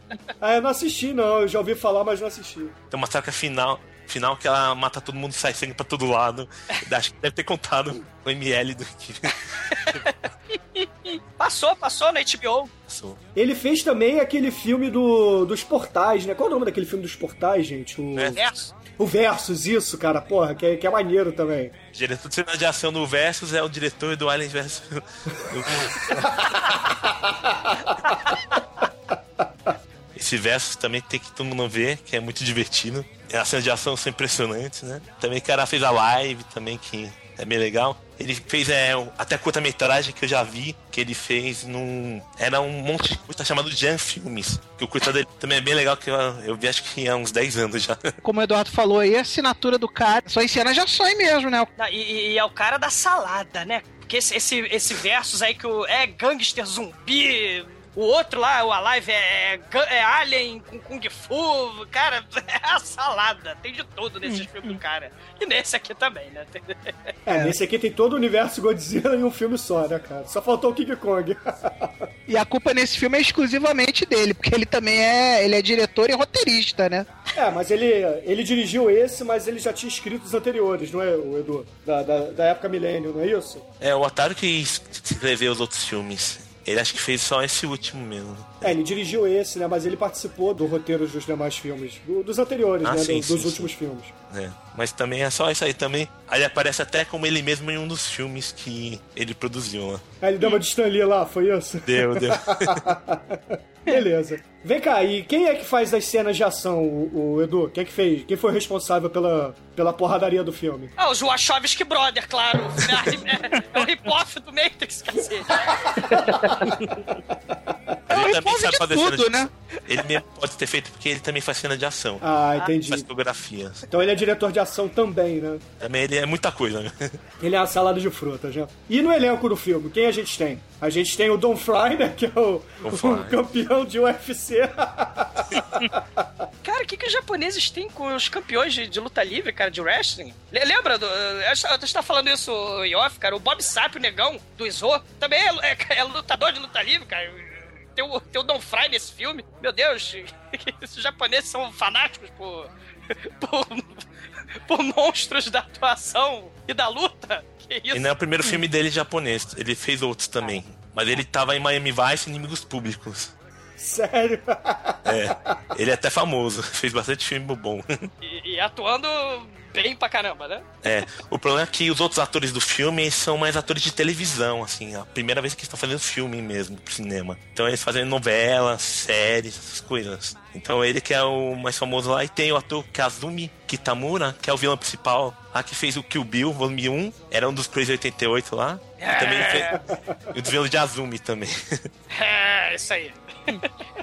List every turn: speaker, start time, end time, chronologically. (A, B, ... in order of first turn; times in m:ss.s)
0:00.4-0:02.8 A
0:02.9-0:09.4 B
0:09.7-0:10.0 C
0:11.4-0:12.7 C
0:12.9-0:13.2 B
0:13.4-0:21.8 A
0:18.2-0:18.4 B
0:18.4-0:18.7 C
0:21.9-0:26.4 B
0:30.2-0:48.0 B
0:48.2-0:51.7 D
0:51.8-1:07.1 C
1:04.3-1:04.8 D
1:07.3-1:11.9 A
1:07.3-1:07.6 D
1:12.3-1:17.1 D
1:17.4-1:23.6 A
1:23.8-1:28.8 B
1:28.6-1:34.1 A
1:32.8-1:33.7 B
1:34.3-1:40.0 B
1:40.2-1:50.9 A
1:41.9-1:42.8 B
1:51.0-1:55.6 C
1:55.6-1:56.7 A
1:56.1-1:56.3 C
1:58.1-1:59.5 D
1:58.1-2:02.2 B
2:02.2-2:03.1 A
2:02.9-2:03.8 B
2:03.9-2:05.6 A
2:05.8-2:06.9 B
2:07.4-2:16.1 A
2:12.8-2:13.4 B
2:16.6-2:32.7 C
2:33.4-2:34.0 C
2:34.7-2:38.1 C
2:37.9-2:43.3 B
2:43.8-2:45.4 A
2:45.0-2:48.1 B
2:48.2-2:50.8 C
2:50.8-3:09.7 B
3:09.0-3:09.7 C
3:09.7-3:10.0 A
3:10.3-3:11.6 B
3:12.1-3:13.7 C